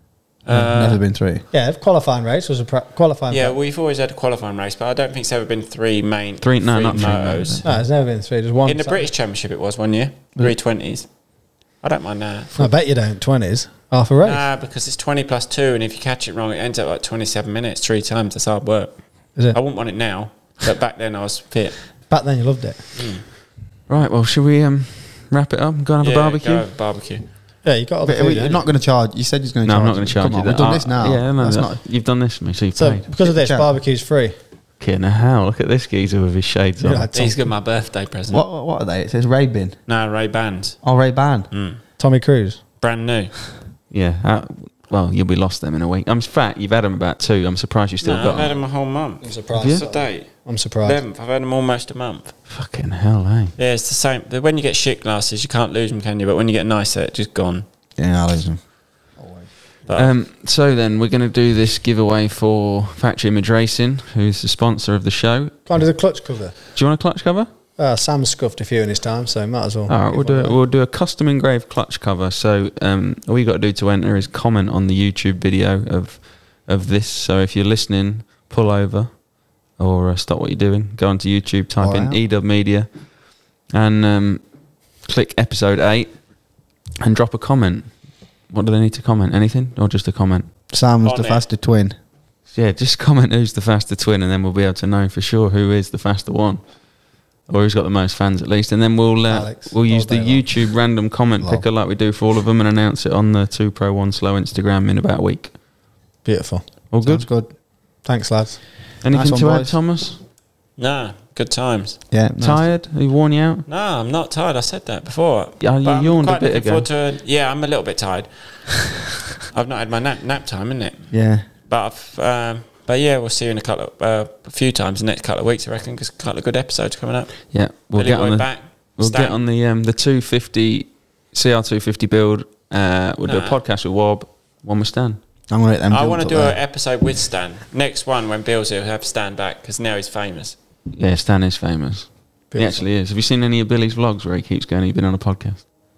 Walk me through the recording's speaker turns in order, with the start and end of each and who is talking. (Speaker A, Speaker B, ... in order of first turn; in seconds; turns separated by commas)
Speaker A: 0.4-1.4, Speaker B: 0.4-1.0, Speaker C: 1.5-3.6, Speaker B: 3.3-7.6, Speaker D: 6.4-7.7, Speaker C: 7.6-9.1, Speaker B: 8.6-12.6, Speaker C: 12.6-14.4, Speaker B: 14.2-22.1, Speaker C: 22.1-22.8, Speaker B: 22.9-23.2, Speaker D: 23.9-26.6, Speaker B: 26.0-27.3, Speaker C: 27.6-28.6, Speaker A: 28.0-31.8, Speaker D: 29.6-33.1, Speaker C: 32.7-34.4, Speaker A: 33.2-33.7, Speaker D: 34.8-37.1, Speaker C: 36.8-37.5, Speaker B: 37.1-38.5, Speaker A: 38.3-39.9, Speaker B: 39.9-41.9, Speaker A: 40.8-41.5, Speaker C: 42.0-42.6, Speaker B: 42.8-43.6, Speaker D: 43.9-48.6, Speaker B: 48.0-52.4, Speaker C: 49.2-51.0, Speaker D: 49.6-49.9, Speaker D: 52.5-53.5, Speaker B: 53.6-57.6, Speaker A: 58.0-59.5, Speaker B: 59.9-60.1, Speaker D: 59.9-65.9, Speaker C: 65.7-66.6, Speaker D: 66.7-67.5, Speaker C: 67.8-70.6, Speaker D: 69.9-90.5, Speaker A: 81.8-82.2, Speaker A: 90.7-91.9, Speaker B: 91.0-91.5, Speaker D: 92.5-105.6, Speaker C: 99.3-100.5, Speaker A: 101.4-101.7, Speaker C: 106.2-108.6, Speaker D: 106.9-107.3, Speaker A: 107.0-107.5, Speaker D: 109.0-110.2, Speaker A: 109.1-109.8, Speaker B: 110.8-112.1, Speaker A: 112.1-112.7, Speaker D: 112.4-113.6, Speaker B: 113.7-118.9, Speaker D: 115.6-116.8, Speaker B: 119.5-129.4, Speaker A: 121.1-121.5, Speaker D: 127.5-135.2, Speaker B: 133.2-133.6, Speaker A: 135.5-136.6, Speaker B: 135.9-140.6, Speaker D: 140.9-145.6, Speaker C: 142.5-142.8